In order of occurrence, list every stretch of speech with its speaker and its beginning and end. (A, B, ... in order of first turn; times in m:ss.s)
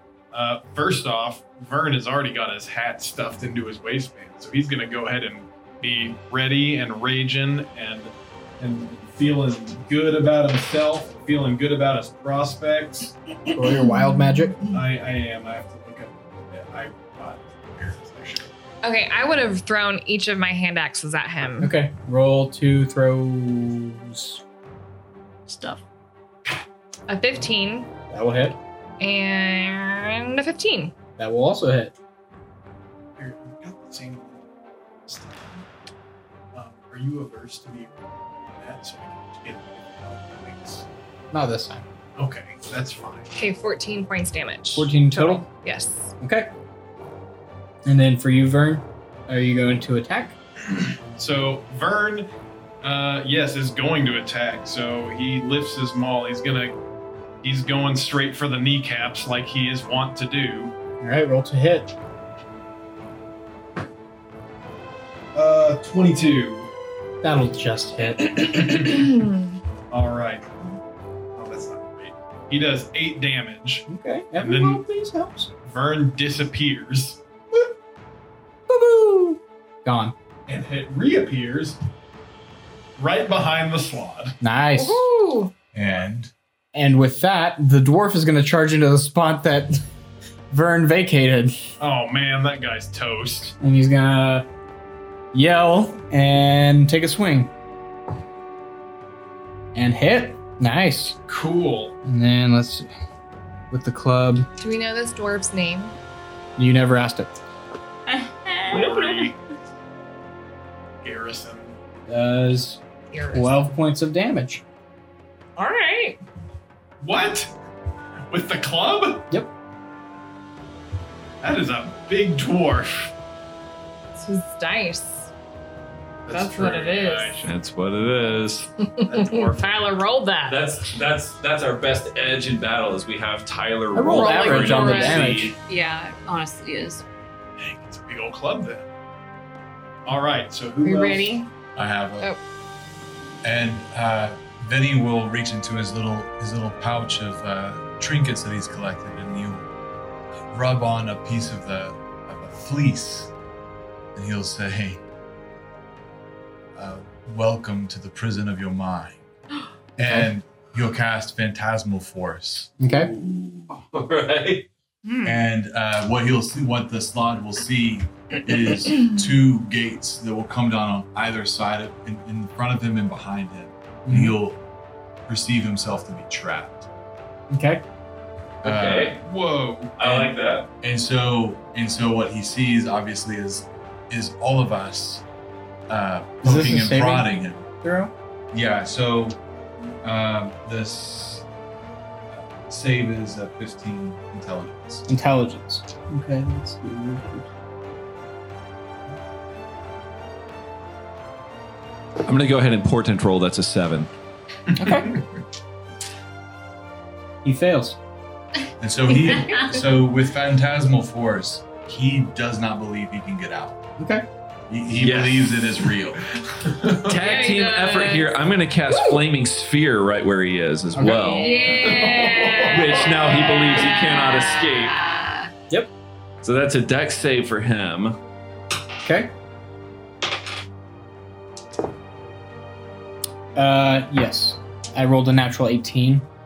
0:00.3-0:13.2 A
0:13.5-0:14.6 B
0:14.7-0:18.5 A
0:18.8-0:21.7 C
0:21.6-0:24.4 B
0:25.5-0:25.8 D
0:27.1-0:27.9 C
0:28.1-0:28.6 B
0:29.0-0:30.9 C
0:31.2-0:31.9 B
0:33.2-0:34.4 A
0:35.1-0:35.6 A
0:36.5-0:38.0 A
0:38.5-0:40.9 A
0:41.3-0:41.9 B
0:42.2-0:43.3 A
0:43.4-0:46.2 C
0:44.8-0:45.5 B
0:46.2-0:46.5 B
0:47.8-0:50.4 B
0:51.2-0:52.3 A
0:52.8-0:56.8 A
0:57.4-1:00.8 A
1:01.0-1:01.9 B
1:05.3-1:06.7 A
1:07.2-1:09.1 B
1:09.9-1:10.5 A
1:11.4-1:13.9 A
1:13.9-1:15.5 B
1:14.4-1:14.8 A
1:15.6-1:17.2 A
1:18.7-1:20.2 B
1:20.5-1:21.8 A
1:23.0-1:24.4 A
1:24.4-1:25.1 B
1:24.8-1:25.5 C
1:25.7-1:26.3 E
1:26.7-1:29.8 B
1:30.5-1:31.6 B
1:31.8-1:33.5 A
1:33.6-1:34.5 B
1:35.3-1:37.5 B
1:39.7-1:41.2 B
1:41.3-1:42.0 A
1:42.0-1:42.9 B
1:43.7-1:44.5 B
1:44.6-1:46.0 C
1:46.6-1:47.3 B
1:48.1-1:49.3 D
1:48.7-1:49.3 A
1:51.0-1:51.8 A
1:52.1-1:52.8 B
1:53.1-1:53.7 C
1:53.3-1:54.6 B
1:55.6-1:56.2 C
1:57.0-1:57.5 A
1:58.3-1:59.3 A
2:01.4-2:03.1 A
2:04.2-2:05.3 C
2:06.3-2:07.5 A
2:06.3-2:07.4 C
2:07.4-2:08.7 F
2:09.0-2:10.7 C
2:09.0-2:10.0 A
2:10.5-2:15.6 F
2:14.0-2:15.6 B
2:14.2-2:15.4 C
2:15.6-2:17.0 D
2:17.6-2:18.9 A
2:20.0-2:21.4 A
2:20.8-2:21.5 C
2:21.8-2:22.3 E
2:23.4-2:29.7 E
2:30.5-2:33.3 E
2:34.2-2:35.0 E
2:36.8-2:39.2 E
2:40.0-2:42.8 E
2:40.0-2:40.3 B
2:42.8-2:43.1 B
2:42.9-2:44.7 F
2:45.0-2:45.4 D
2:45.2-2:54.6 E
2:54.1-2:54.4 B
2:55.3-2:56.9 E
2:57.5-2:57.8 B
2:58.6-2:59.2 F
2:58.6-2:59.2 E
2:59.2-3:00.2 A
3:00.0-3:00.7 F
3:00.8-3:05.2 E
3:05.9-3:07.6 E
3:06.4-3:08.1 B
3:08.5-3:09.4 E
3:10.0-3:11.5 E
3:12.3-3:15.1 E
3:15.1-3:17.5 B
3:22.2-3:24.1 F
3:24.8-3:25.1 B
3:24.8-3:25.1 A
3:27.4-3:28.0 B
3:28.8-3:33.8 E
3:34.0-3:34.3 B
3:34.7-3:36.2 E
3:34.9-3:36.0 F
3:36.6-3:37.2 A
3:37.0-3:41.6 F
3:37.2-3:38.3 C
3:40.9-3:41.4 B
3:41.3-3:45.5 D
3:41.4-3:42.7 C
3:41.7-3:42.8 A
3:42.7-3:45.0 F
3:46.4-3:48.2 F
3:49.0-3:49.3 B
3:53.6-3:56.3 B